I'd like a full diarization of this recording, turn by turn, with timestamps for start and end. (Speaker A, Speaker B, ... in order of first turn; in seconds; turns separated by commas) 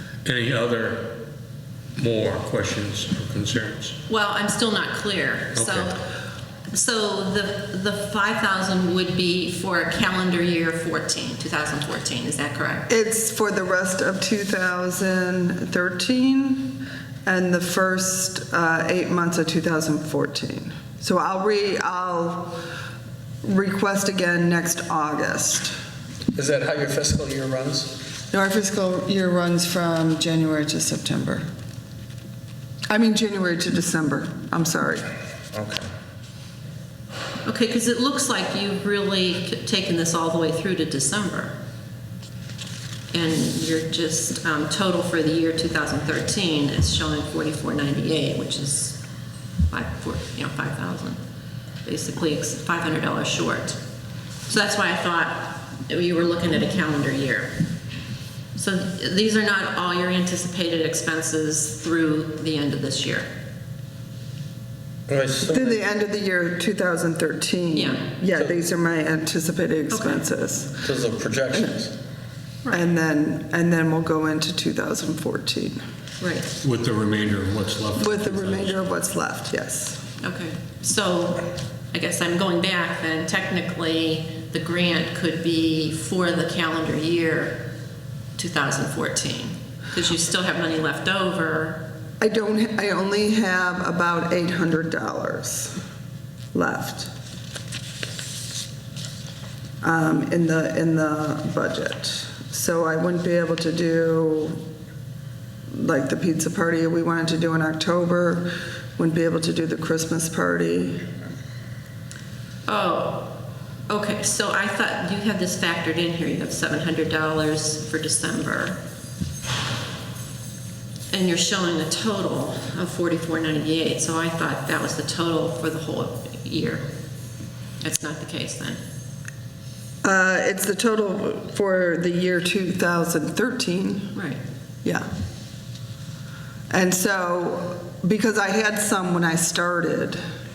Speaker A: 0.2-1.1, Speaker A: 2.0-3.9, Speaker B: 4.1-6.0, Speaker A: 5.5-5.9, Speaker B: 6.7-12.9, Speaker C: 12.9-22.6, Speaker C: 23.4-25.8, Speaker D: 26.3-27.9, Speaker C: 28.3-31.4, Speaker C: 32.9-35.0, Speaker D: 35.5-35.8, Speaker B: 37.4-41.5, Speaker B: 43.1-49.0, Speaker B: 49.7-51.2, Speaker B: 51.8-53.8, Speaker B: 54.5-57.6, Speaker B: 58.5-63.3, Speaker D: 65.1-65.8, Speaker C: 65.5-70.8, Speaker B: 67.7-68.0, Speaker B: 69.9-70.2, Speaker D: 70.8-71.9, Speaker C: 72.7-75.8, Speaker B: 76.2-76.5, Speaker A: 76.6-78.7, Speaker C: 78.0-80.0, Speaker B: 80.2-87.6, Speaker B: 88.4-91.8, Speaker C: 92.2-95.8, Speaker C: 96.5-97.1, Speaker C: 99.8-104.6, Speaker C: 105.7-111.0, Speaker B: 112.7-113.3, Speaker B: 113.9-118.8, Speaker B: 121.1-126.8, Speaker B: 127.8-128.8, Speaker C: 130.0-134.1, Speaker B: 134.1-134.4, Speaker C: 136.7-140.2